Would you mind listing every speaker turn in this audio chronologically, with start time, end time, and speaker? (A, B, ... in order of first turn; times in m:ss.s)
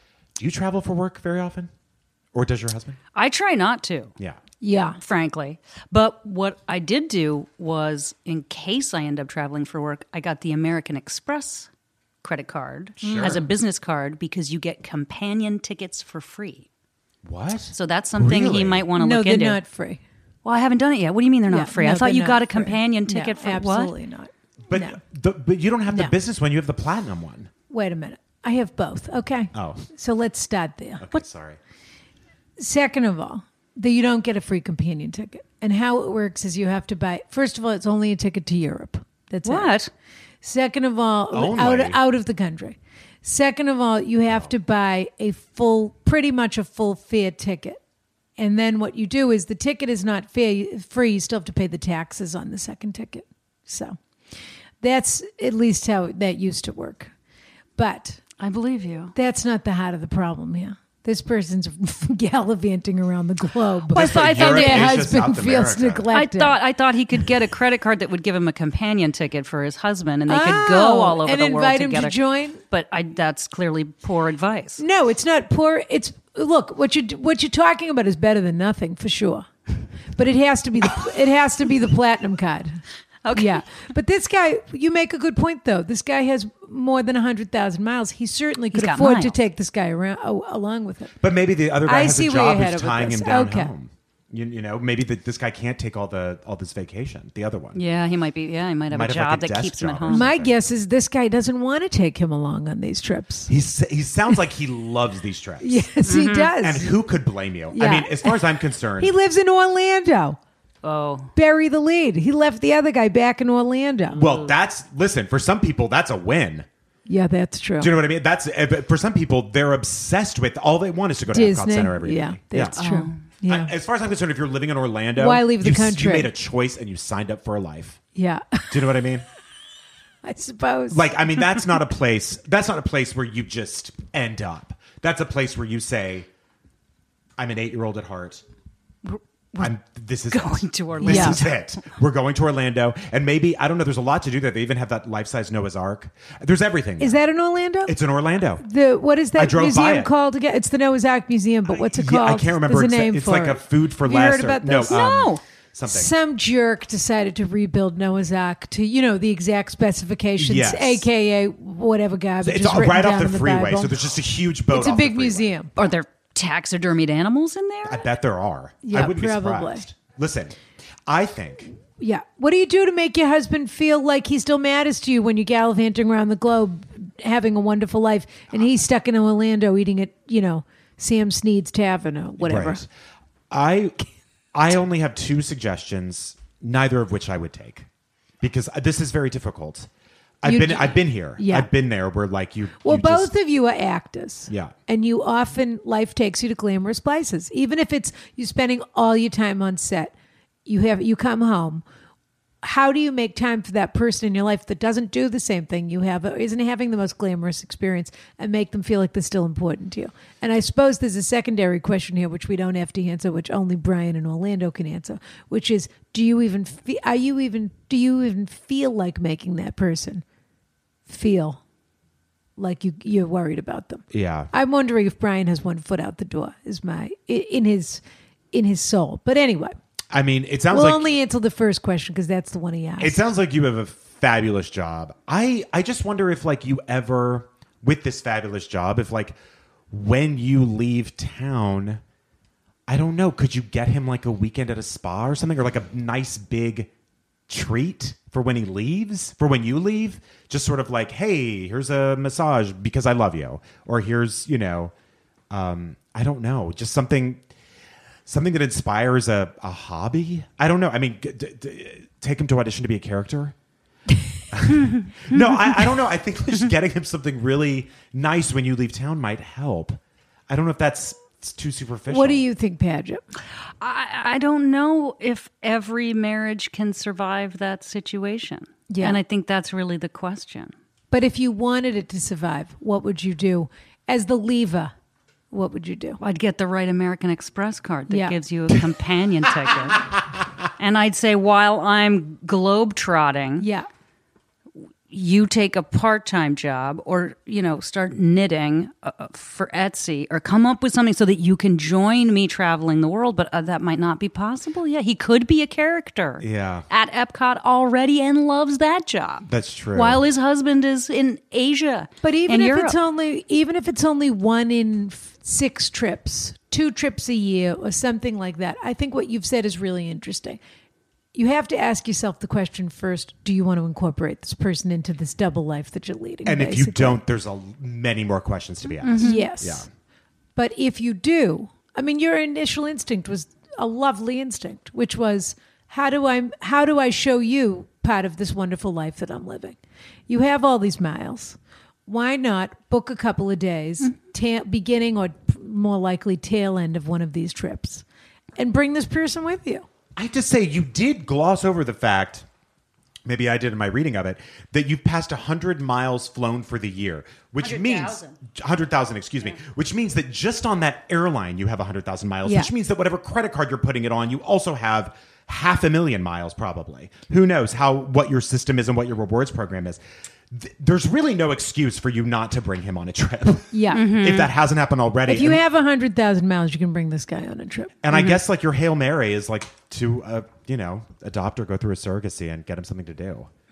0:00.4-0:01.7 A
0:02.3-0:03.0 A
0:03.2-0:04.1 B
0:04.6-0:05.0 C
0:05.0-0:11.7 B
0:12.2-0:16.7 B
0:13.0-0:13.5 A
0:17.2-0:18.9 A
0:17.7-0:19.6 B
0:19.0-0:20.0 C
0:20.4-0:23.9 B
0:21.5-0:25.0 C
0:24.7-0:27.5 A
0:27.7-0:31.1 C
0:29.5-0:29.8 A
0:31.0-0:31.6 A
0:32.6-0:39.7 C
0:39.4-0:39.9 B
0:40.4-0:47.8 C
0:41.3-0:42.0 A
0:48.4-0:54.0 C
0:54.8-0:57.1 C
0:57.8-0:58.2 C
0:58.4-0:59.1 B
0:59.1-1:06.6 C
1:03.9-1:05.2 B
1:03.9-1:06.1 A
1:06.1-1:12.2 B
1:10.3-1:12.6 C
1:12.7-1:14.8 B
1:14.8-1:19.5 C
1:20.1-1:31.1 C
1:23.2-1:23.6 B
1:28.7-1:29.4 B
1:31.2-1:37.8 A
1:31.8-1:33.7 C
1:37.8-1:40.3 B
1:38.9-1:40.5 A
1:40.1-1:43.5 C
1:43.5-1:45.9 A
1:45.6-1:47.0 C
1:46.0-1:46.6 B
1:46.6-1:49.2 A
1:47.7-1:48.4 C
1:49.0-1:50.4 C
1:50.8-1:51.3 B
1:51.4-1:54.2 C
1:54.2-1:56.7 A
1:54.2-1:54.5 B
1:57.1-1:58.0 C
1:57.8-2:02.8 A
2:01.3-2:03.7 C
2:02.8-2:03.2 B
2:03.5-2:08.0 A
2:05.2-2:06.3 C
2:08.2-2:08.9 C
2:08.7-2:09.3 A
2:10.2-2:11.2 C
2:10.9-2:16.3 A
2:17.4-2:18.4 A
2:19.1-2:19.7 B
2:19.6-2:27.2 A
2:20.3-2:21.8 B
2:21.0-2:21.4 C
2:27.0-2:28.0 C
2:27.9-2:28.6 A
2:28.6-2:35.0 C
2:29.4-2:30.1 A
2:31.7-2:36.1 A
2:34.9-2:35.4 B
2:35.9-2:44.0 C
2:40.4-2:41.1 A
2:42.4-2:45.5 A
2:44.7-2:45.8 C
2:45.8-2:48.1 B
2:47.8-2:51.7 A
2:48.8-2:49.8 C
2:52.0-3:02.8 C
3:02.4-3:02.9 A
3:03.5-3:04.0 A
3:04.5-3:07.9 A
3:08.4-3:09.9 A
3:10.4-3:13.3 A
3:10.4-3:11.7 C
3:12.8-3:20.1 C
3:14.5-3:14.7 A
3:20.7-3:21.8 C
3:22.6-3:40.2 C
3:41.1-3:41.6 C
3:42.6-3:49.8 C
3:44.1-3:44.5 A
3:50.1-3:51.1 A
3:50.7-3:53.3 C
3:53.0-3:59.4 A
3:59.9-4:02.0 A
4:02.9-4:06.9 A
4:07.5-4:14.9 A
4:15.5-4:17.4 A
4:18.3-4:23.6 A
4:24.5-4:32.4 A
4:32.1-4:33.2 C
4:33.8-4:40.7 B
4:38.9-4:39.2 C
4:41.1-4:44.9 C
4:45.5-4:46.2 C
4:46.2-4:50.2 B
4:48.1-4:48.4 C
4:50.8-4:53.7 B
4:53.6-4:53.9 C
4:55.1-5:13.0 B
5:06.4-5:06.9 A
5:09.5-5:10.2 A
5:12.2-5:20.6 C
5:21.4-5:27.2 C
5:26.4-5:29.9 A
5:29.0-5:29.4 B
5:29.2-5:29.9 C
5:30.6-5:48.0 C
5:48.6-5:49.9 C
5:50.2-5:52.5 A
5:53.2-6:10.0 A
5:57.6-5:58.3 B
6:02.4-6:02.7 C
6:10.5-6:15.6 A
6:13.7-6:14.0 C
6:13.9-6:14.5 B
6:15.3-6:17.9 C
6:18.0-6:23.5 A
6:18.1-6:18.4 B